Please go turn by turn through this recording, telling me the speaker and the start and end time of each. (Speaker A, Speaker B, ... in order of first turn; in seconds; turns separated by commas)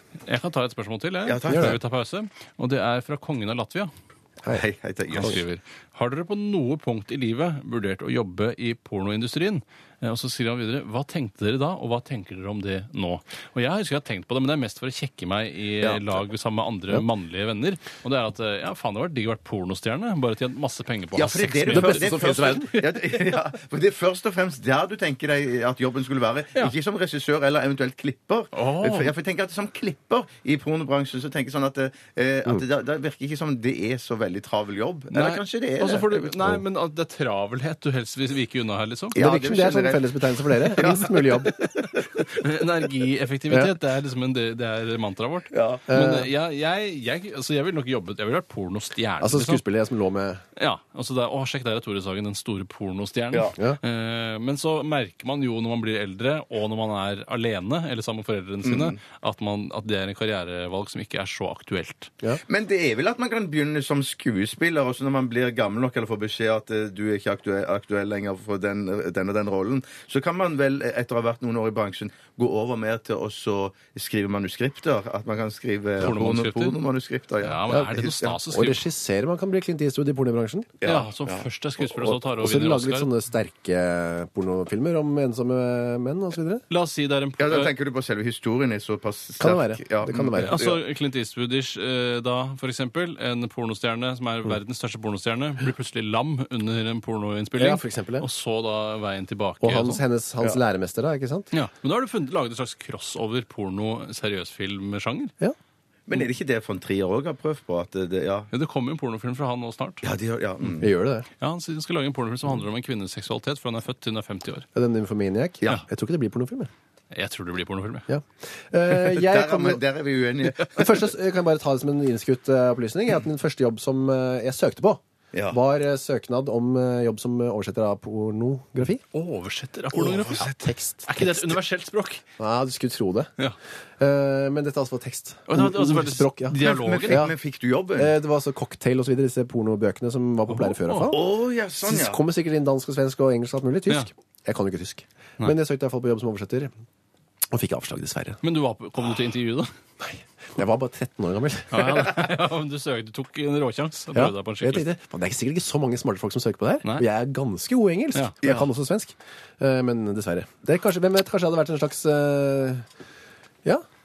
Speaker A: 0.2-3.9, Speaker B: 1.2-1.8, Speaker C: 1.5-1.8, Speaker B: 4.5-5.4, Speaker A: 5.1-22.5, Speaker B: 15.8-16.1, Speaker B: 21.1-36.4, Speaker C: 21.7-22.8, Speaker A: 28.5-29.1, Speaker A: 35.1-39.2, Speaker B: 39.1-42.4, Speaker C: 39.1-41.6, Speaker A: 42.3-49.6, Speaker B: 45.5-45.8, Speaker C: 45.9-46.3, Speaker C: 49.2-50.4, Speaker A: 50.5-62.1, Speaker B: 58.6-58.9, Speaker B: 62.5-78.4, Speaker A: 76.0-76.8, Speaker A: 77.4-78.8, Speaker C: 77.7-80.7, Speaker B: 80.8-81.4, Speaker A: 80.8-83.1, Speaker C: 81.9-86.6, Speaker A: 86.7-87.7, Speaker B: 87.4-90.8, Speaker C: 89.4-90.6, Speaker A: 90.3-100.0, Speaker C: 97.6-98.2, Speaker C: 99.6-101.5, Speaker A: 101.5-105.3, Speaker B: 106.1-108.5, Speaker A: 108.5-110.0, Speaker B: 110.0-110.9, Speaker C: 110.8-111.3, Speaker A: 111.4-114.7, Speaker C: 114.7-116.7, Speaker A: 117.1-118.1, Speaker C: 118.1-119.8, Speaker B: 119.0-121.0, Speaker C: 120.4-129.0, Speaker B: 125.3-125.6, Speaker A: 129.1-132.2, Speaker C: 130.0-131.6, Speaker B: 130.0-130.6, Speaker C: 132.4-133.3, Speaker C: 134.0-137.3, Speaker A: 135.5-137.2, Speaker B: 136.6-138.1, Speaker C: 137.9-141.3, Speaker A: 140.5-141.1, Speaker B: 141.1-142.2, Speaker C: 141.8-146.7, Speaker C: 147.5-148.4, Speaker A: 148.4-149.7, Speaker C: 150.0-152.1, Speaker A: 151.7-154.8, Speaker C: 154.1-162.8, Speaker A: 158.1-158.5